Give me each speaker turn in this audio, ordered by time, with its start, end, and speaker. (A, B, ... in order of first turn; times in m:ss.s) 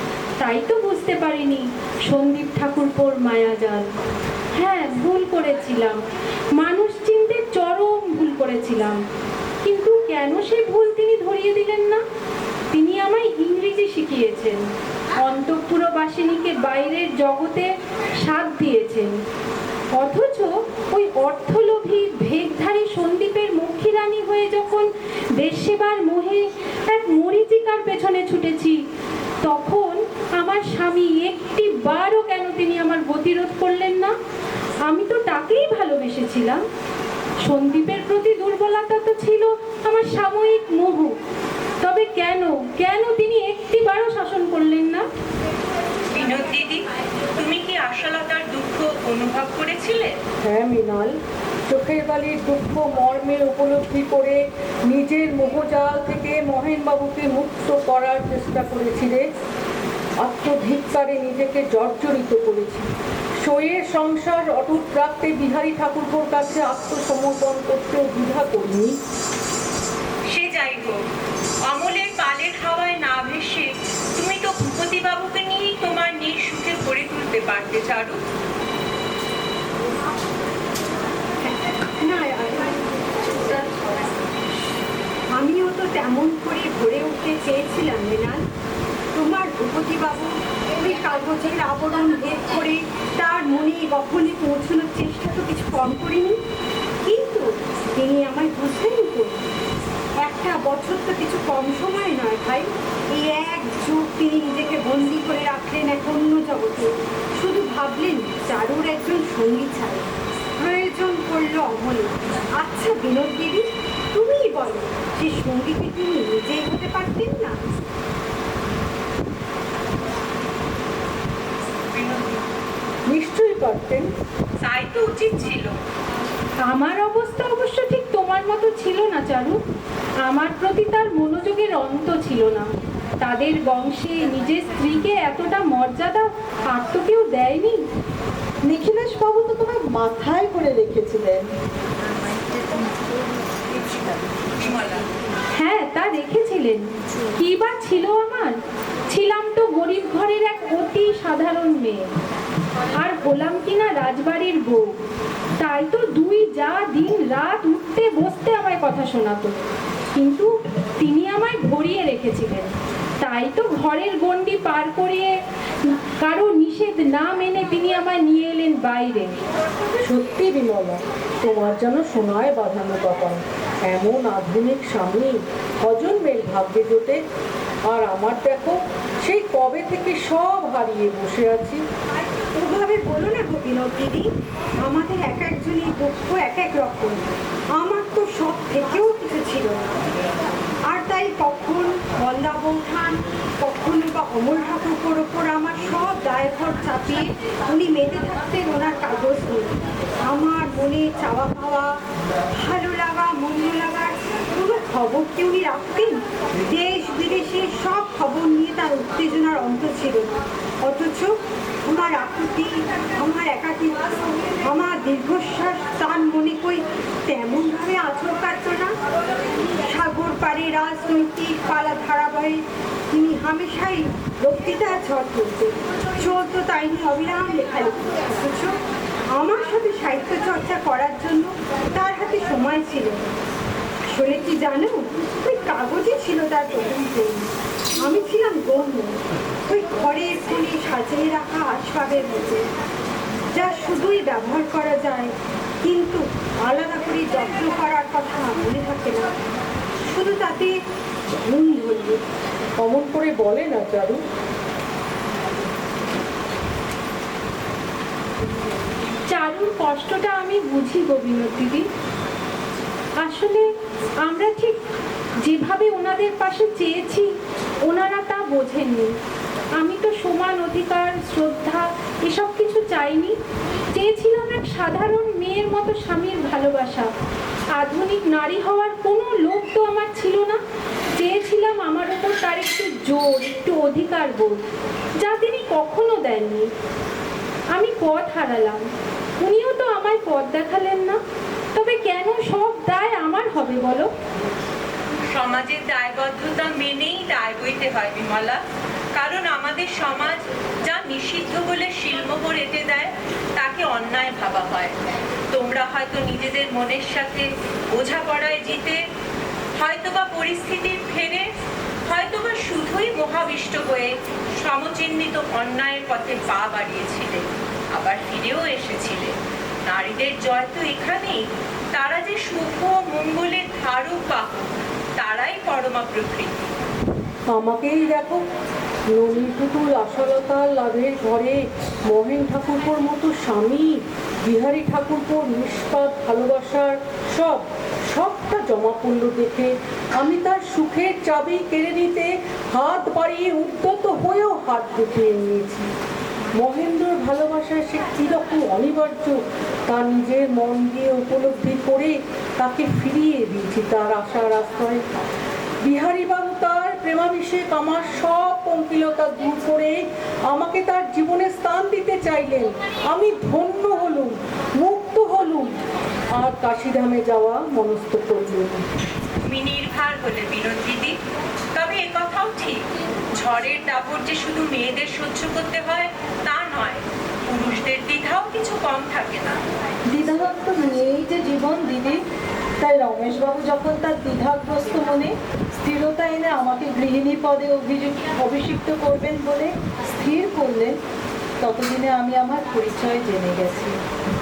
0:00.4-0:03.8 A
0:04.6-0:06.0 A
0:06.6-0:09.0 A
0:09.6-0:12.0 A
0:12.7-0:14.6 A
0:15.2-0:17.7 A
0:18.2-0:19.1 A
0:19.9-0:28.8 A
0:29.4-0:34.1 A
0:34.9-0:36.6 A
0:37.4-0:41.1 A
0:41.8-0:45.1 A
0:46.1-0:50.2 B
0:50.4-0:51.1 C
0:51.7-0:59.2 C
1:00.2-1:02.9 C
1:03.4-1:09.0 C
1:10.3-1:11.1 B
1:11.7-1:18.2 B
1:21.4-1:22.8 D
1:25.3-1:28.4 D
1:29.1-1:36.4 D
1:37.0-1:39.4 D
1:40.2-1:50.1 D
1:50.6-1:57.6 D
2:01.9-2:02.4 B
2:03.1-2:04.1 C
2:04.6-2:05.8 B
2:06.6-2:09.6 A
2:10.2-2:12.7 A
2:13.2-2:17.8 A
2:18.7-2:21.5 E
2:24.5-2:25.1 B
2:25.5-2:26.8 A
2:27.4-2:32.1 A
2:33.0-2:34.9 A
2:35.6-2:39.6 A
2:40.1-2:45.3 A
2:45.8-2:49.4 A
2:50.0-2:57.2 C
2:57.9-3:01.8 C
3:02.5-3:04.3 D
3:04.8-3:07.2 D
3:07.8-3:10.0 D
3:10.9-3:22.0 D
3:22.5-3:38.9 D
3:39.8-3:48.8 D
3:49.3-3:53.3 D
3:54.1-3:59.1 D
3:59.7-4:02.6 D
4:03.5-4:05.3 D
4:05.8-4:09.3 D
4:10.1-4:10.8 D
4:11.4-4:12.2 D
4:12.8-4:14.2 C
4:19.3-4:21.8 A
4:23.2-4:23.6 A
4:24.2-4:24.8 A
4:25.4-4:27.3 A
4:27.9-4:29.1 A
4:29.8-4:33.3 A
4:33.9-4:37.1 A
4:37.8-4:40.6 A
4:41.2-4:44.6 A
4:45.2-4:46.7 A
4:47.7-4:48.8 A
4:49.4-4:51.2 A
4:51.7-4:54.1 A
4:55.3-4:58.6 B
4:59.1-5:05.0 B
5:05.5-5:09.0 B
5:09.8-5:11.5 B
5:12.1-5:19.3 B
5:19.9-5:26.7 B
5:27.5-5:28.4 C
5:29.1-5:45.9 C
5:46.6-5:55.0 C
5:55.8-6:05.8 C
6:06.4-6:08.8 C
6:09.4-6:11.2 B
6:11.7-6:19.6 B
6:20.1-6:22.2 E
6:22.8-6:31.0 E
6:31.6-6:34.0 E